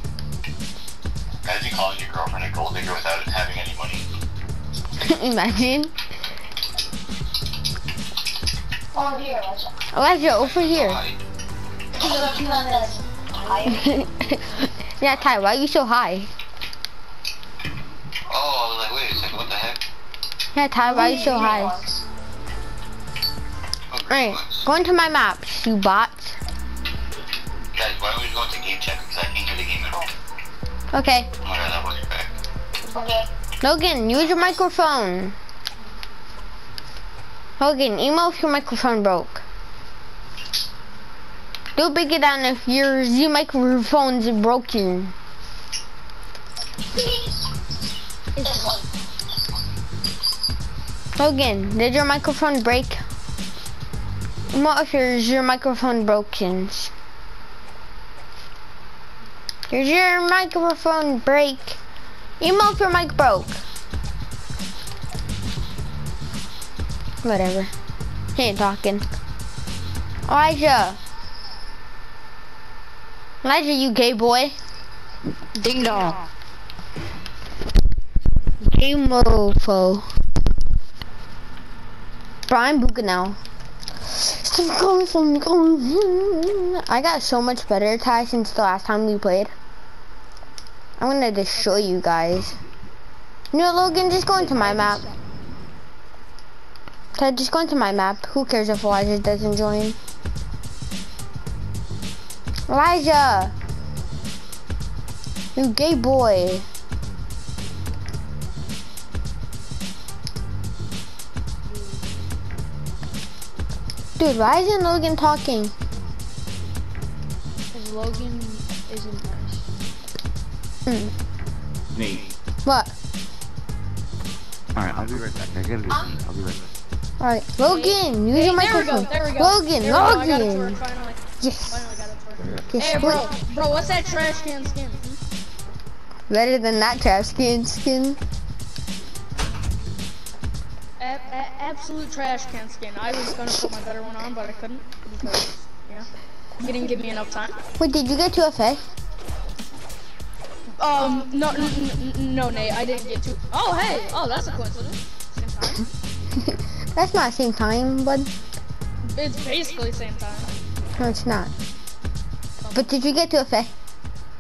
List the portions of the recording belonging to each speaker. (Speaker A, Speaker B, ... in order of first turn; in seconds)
Speaker A: 1.4-4.1, 10.4-11.2, 18.3-19.8, 23.9-24.7, 27.8-30.1, 31.4-32.3
Speaker B: 5.0-5.9, 9.9-11.0, 13.7-16.3, 20.5-21.8, 24.1-26.4, 30.9-31.3, 33.6-35.4, 37.6-39.4, 41.8-45.1, 51.2-53.0, 54.5-56.9, 59.7-61.8, 62.4-63.6, 67.2-67.7, 68.3-69.0, 70.3-71.0, 73.4-74.5, 78.6-80.1, 82.5-83.4, 84.1-89.5, 91.0-92.6, 93.5-95.1, 97.2-100.0, 102.7-103.5, 105.5-106.7, 114.2-115.7, 120.9-121.1, 122.7-122.9, 127.2-130.8, 131.4-131.9, 132.7-133.3, 136.3-138.2, 147.8-148.8, 156.4-158.3, 161.0-161.5, 162.7-163.7
Speaker C: 8.9-9.7, 12.0-14.0, 20.9-21.9, 32.9-33.3, 48.4-48.8, 125.9-126.2
Speaker D: 12.0-13.7, 20.9-21.8, 48.4-48.7, 75.5-76.2, 94.3-95.2, 117.7-119.7, 127.7-128.0
Speaker E: 122.0-122.3, 124.8-126.7
Speaker F: 127.8-135.2, 141.0-146.1, 146.6-147.6, 150.8-155.9, 159.1-160.5, 162.6-162.9